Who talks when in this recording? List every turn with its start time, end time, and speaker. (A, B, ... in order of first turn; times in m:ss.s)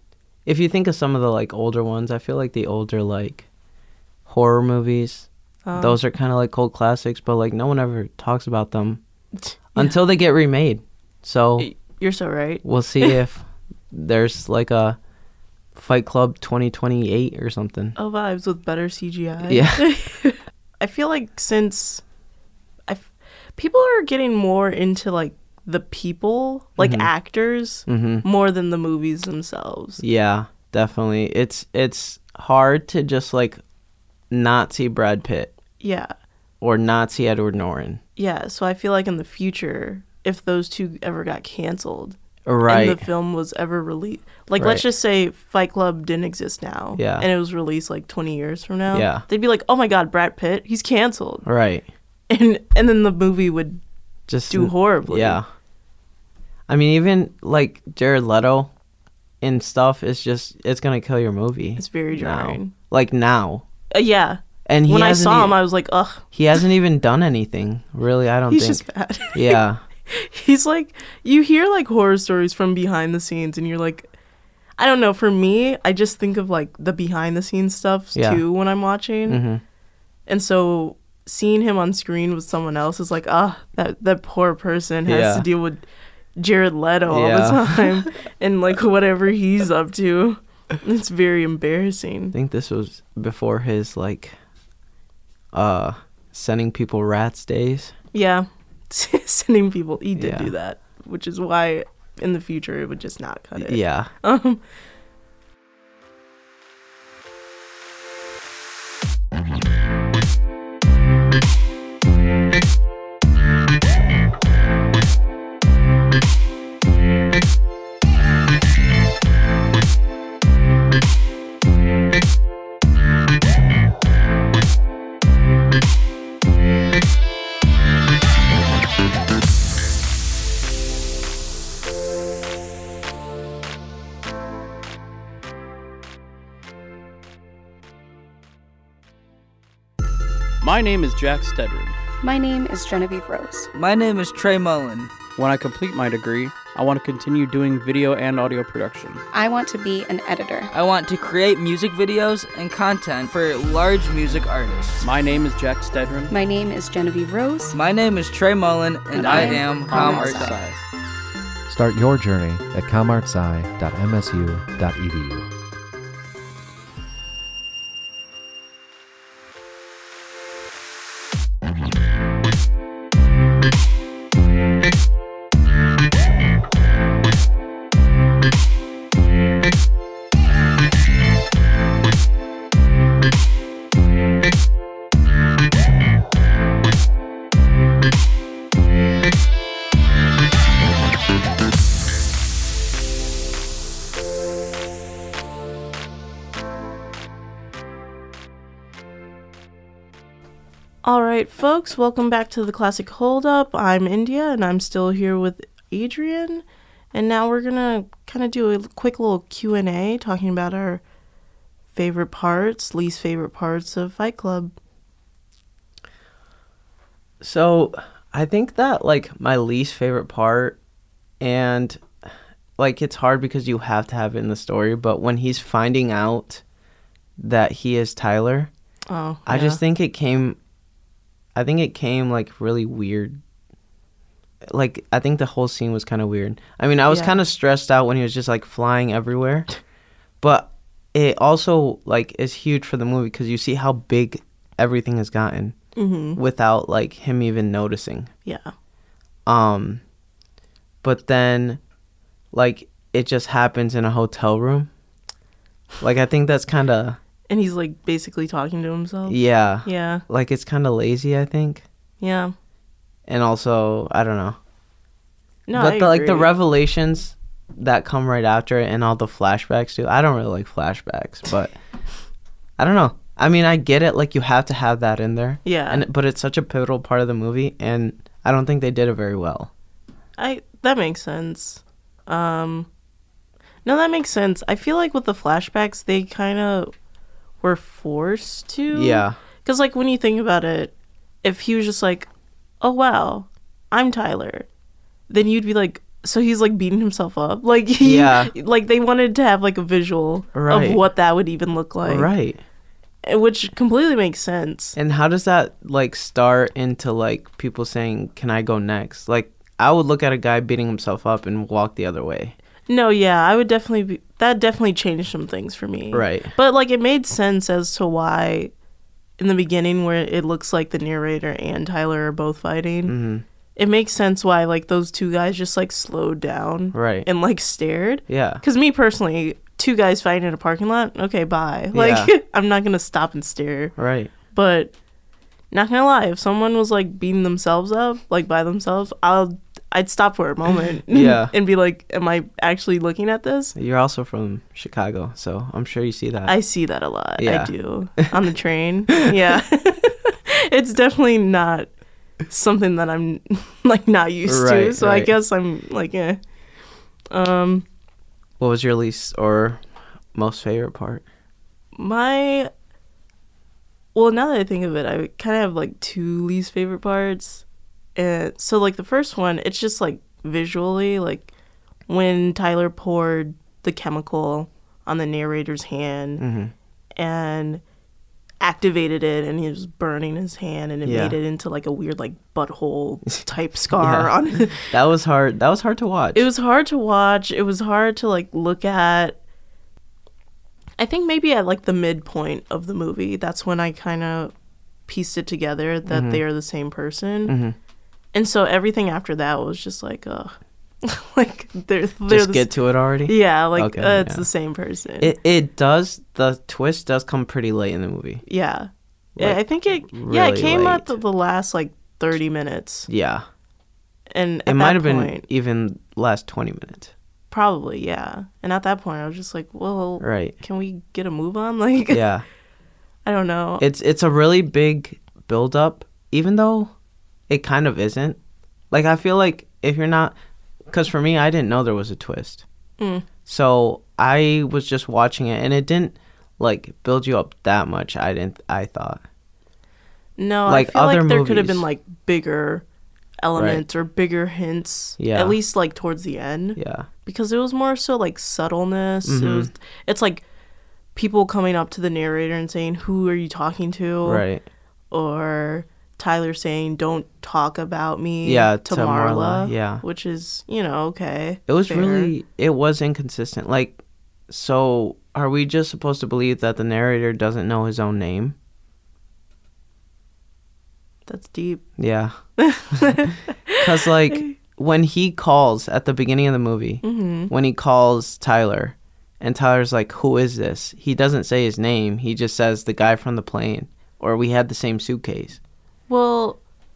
0:00.4-0:03.4 A
0:04.2-0:09.0 A
0:05.6-0:06.0 B
0:09.5-0:09.9 B
0:09.7-0:11.7 A
0:11.6-0:13.2 B
0:12.6-0:15.0 A
0:15.7-0:18.0 A
0:18.0-0:22.0 B
0:19.5-0:19.9 A
0:22.9-0:30.0 B
0:26.8-0:27.1 A
0:27.9-0:28.2 A
0:30.0-0:33.6 A
0:34.3-0:35.5 A
0:35.8-0:36.1 B
0:36.6-0:38.0 A
0:38.2-0:51.4 B
0:42.4-0:43.0 A
0:44.6-0:44.8 A
0:47.0-0:47.3 A
0:48.9-0:49.2 A
0:51.4-0:51.9 A
0:52.3-0:53.8 B
0:54.3-0:55.5 A
0:54.5-0:55.4 B
0:56.7-0:58.7 A
0:59.4-1:03.6 A
1:01.8-1:02.7 B
1:03.9-1:06.3 B
1:04.6-1:05.6 A
1:06.3-1:09.8 A
1:08.5-1:14.1 B
1:14.8-1:19.4 B
1:18.1-1:18.4 A
1:19.3-1:19.6 A
1:20.3-1:25.8 B
1:25.1-1:25.4 A
1:26.4-1:32.3 B
1:27.1-1:28.0 A
1:32.3-1:34.3 A
1:35.5-1:37.9 A
1:38.1-1:44.6 B
1:40.2-1:40.5 A
1:43.6-1:44.1 A
2:20.6-2:21.9 C
2:22.2-2:23.7 D
2:23.7-2:25.2 E
2:25.3-2:29.2 C
2:29.3-2:30.7 D
2:30.7-2:35.0 E
2:35.0-2:36.3 C
2:36.3-2:37.8 D
2:37.7-2:40.6 E
2:39.1-2:40.5 D
2:39.2-2:40.8 C
2:41.7-2:45.5 F
3:21.0-3:31.0 B
3:31.9-3:34.7 B
3:37.4-3:40.8 A
3:41.4-3:42.0 A
3:42.8-3:46.6 A
3:47.4-3:48.7 A
3:49.1-3:49.8 B
3:49.5-3:50.6 A
3:51.5-3:53.4 A
3:54.7-3:59.7 A
3:57.1-3:57.4 B
4:00.4-4:05.8 A
4:06.0-4:06.4 B
4:06.4-4:08.3 A
4:08.4-4:08.7 B
4:09.4-4:10.0 A
4:11.0-4:11.8 A
4:12.5-4:14.9 A
4:16.0-4:17.2 A
4:17.5-4:20.2 B
4:19.3-4:21.8 A
4:22.2-4:22.5 B
4:23.3-4:24.6 A
4:25.7-4:26.5 B
4:25.8-4:31.7 A
4:32.8-4:39.7 A
4:35.6-4:36.0 B
4:40.4-4:42.9 B
4:43.8-4:46.9 B
4:47.6-4:52.3 B
4:48.9-4:49.4 A
4:52.8-4:54.7 B
4:55.3-5:02.3 B
4:58.0-4:58.5 A
5:00.5-5:01.0 A
5:02.0-5:02.6 A
5:03.2-5:05.0 B
5:05.0-5:12.5 A
5:12.9-5:18.7 B
5:16.1-5:16.5 A
5:19.4-5:23.1 B
5:23.1-5:23.4 A
5:23.8-5:33.9 B
5:26.9-5:27.3 A
5:28.3-5:28.6 A
5:31.9-5:32.3 A
5:34.0-5:34.3 A
5:34.5-5:34.9 B
5:35.7-5:43.7 B
5:41.1-5:41.5 A
5:43.8-5:46.5 A
5:46.4-5:51.9 B
5:47.4-5:48.2 A
5:52.5-5:56.4 B
5:54.4-5:55.3 A
5:57.3-5:57.8 B
5:58.6-5:59.8 A
6:00.3-6:01.2 A
6:02.0-6:02.7 B
6:04.1-6:07.6 B
6:08.2-6:11.5 B
6:12.1-6:16.4 B
6:16.4-6:16.7 A
6:17.2-6:17.8 B
6:18.6-6:24.9 B
6:21.0-6:21.4 A
6:24.0-6:26.5 A
6:26.3-6:29.4 B
6:31.0-6:34.5 B
6:35.1-6:37.5 B
6:36.1-6:36.4 A
6:37.5-6:37.7 A
6:38.3-6:42.7 B
6:42.3-6:44.5 A
6:43.2-6:45.3 B
6:45.2-6:48.4 A
6:48.4-6:53.1 B
6:49.4-6:51.2 A
6:53.1-6:53.4 A
6:54.3-6:55.4 B
6:54.7-6:57.1 A
6:57.5-7:02.2 B
7:00.2-7:00.5 A
7:02.1-7:02.4 A
7:03.2-7:03.8 B
7:03.8-7:06.9 A
7:07.5-7:08.4 A
7:08.9-7:10.3 A
7:10.9-7:12.6 A
7:13.0-7:13.3 B
7:13.4-7:19.2 A
7:20.4-7:22.8 B
7:20.7-7:21.8 A
7:23.4-7:30.4 B
7:23.6-7:23.8 A
7:25.2-7:25.6 A
7:26.8-7:27.1 A
7:29.2-7:29.7 A
7:31.1-7:34.4 B
7:34.2-7:34.6 A
7:35.1-7:42.3 B
7:38.4-7:40.0 A
7:41.7-7:48.5 A
7:51.3-7:51.8 B
7:52.0-7:52.4 A
7:52.6-7:54.5 B
7:52.9-8:05.6 A
7:57.0-7:57.5 B
8:06.1-8:06.6 B